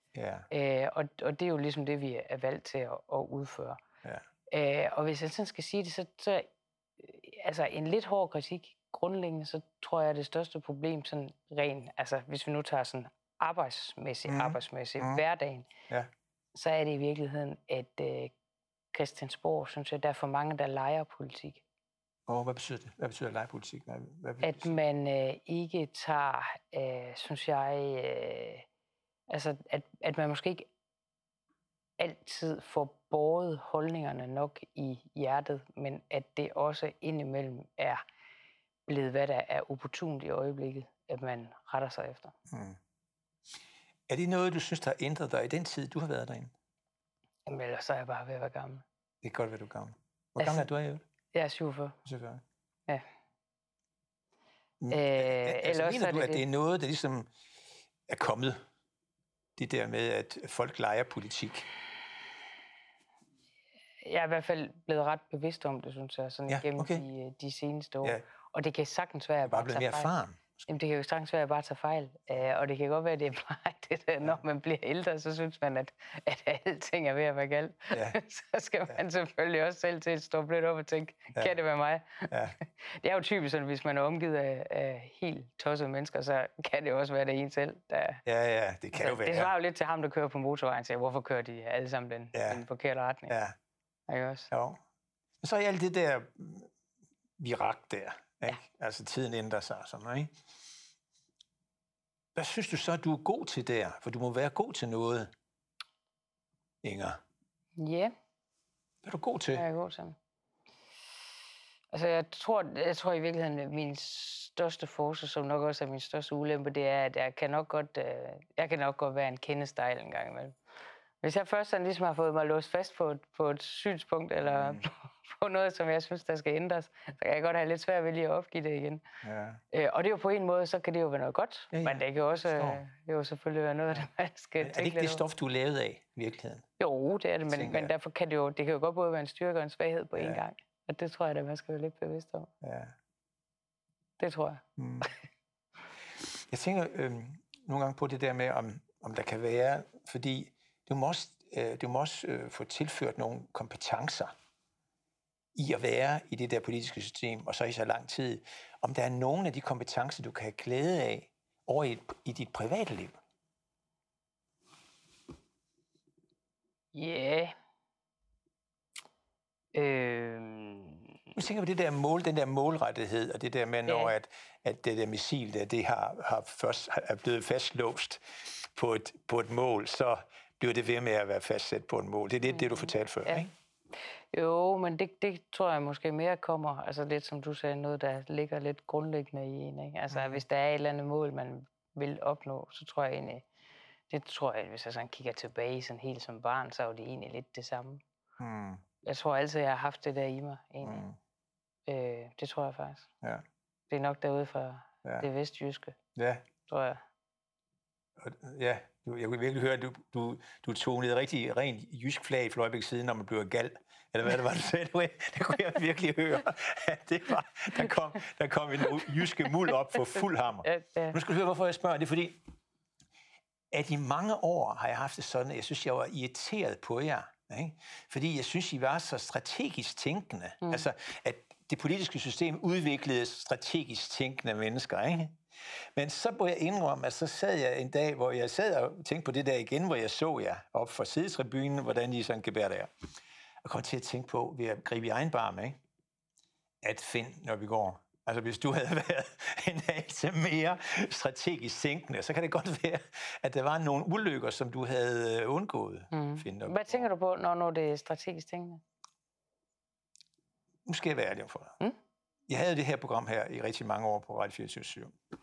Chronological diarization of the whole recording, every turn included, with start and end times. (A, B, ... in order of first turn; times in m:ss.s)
0:00.1-0:00.5 A
0:00.5-0:03.8 B
0:04.5-0:06.5 B
0:07.0-0:15.7 B
0:14.3-0:15.2 A
0:16.5-0:18.3 B
0:18.9-0:21.6 B
0:22.3-0:24.7 A
0:24.4-0:28.6 B
0:29.3-0:30.7 B
0:32.0-0:38.0 B
0:38.9-0:42.3 B
0:42.5-0:42.8 A
0:44.1-0:46.5 A
0:47.4-0:48.8 B
0:49.2-0:51.0 A
0:50.4-0:50.7 B
0:51.3-0:52.0 B
0:52.0-0:52.4 A
0:54.8-0:57.3 A
0:54.9-0:56.4 B
0:58.1-0:58.6 A
0:59.6-1:01.7 A
1:04.0-1:10.1 B
1:06.5-1:07.0 A
1:09.4-1:10.4 A
1:10.7-1:28.2 B
1:17.9-1:18.2 A
1:22.3-1:22.6 A
1:28.2-1:29.5 A
1:28.9-1:33.4 B
1:32.3-1:32.6 A
1:33.3-1:33.5 A
1:34.1-1:34.5 B
1:34.5-1:34.8 A
1:35.4-1:36.7 A
1:37.4-1:40.3 A
1:42.3-1:45.3 A
1:46.8-1:47.2 A
1:47.8-1:48.1 B
1:49.0-1:49.6 A
1:49.5-1:50.2 B
1:51.9-2:00.5 B
2:01.2-2:09.0 B
2:04.4-2:04.8 A
2:09.2-2:09.6 A
2:09.7-2:15.2 B
2:11.7-2:12.8 A
2:14.6-2:16.6 A
2:16.8-2:22.5 B
2:17.5-2:17.9 A
2:20.2-2:20.4 A
2:22.6-2:22.9 A
2:24.2-2:25.1 B
2:24.8-2:25.1 A
2:26.2-2:34.3 A
2:35.5-2:43.2 A
2:46.9-2:47.5 B
2:49.7-2:51.0 B
2:51.4-3:03.5 A
2:53.9-2:54.1 B
3:02.5-3:03.4 B
3:04.3-3:13.4 B
3:10.1-3:10.4 A
3:14.1-3:18.0 B
3:18.4-3:18.8 A
3:19.0-3:21.0 B
3:20.8-3:21.2 A
3:21.9-3:23.1 B
3:23.9-3:26.0 B
3:26.2-3:26.4 A
3:26.7-3:27.0 B
3:28.2-3:42.4 A
3:39.7-3:41.2 B
3:43.7-3:55.4 A
3:56.0-4:02.9 A
4:03.6-4:05.8 A
4:06.8-4:17.1 A
4:16.1-4:18.8 B
4:20.8-4:21.8 A
4:22.5-4:25.1 A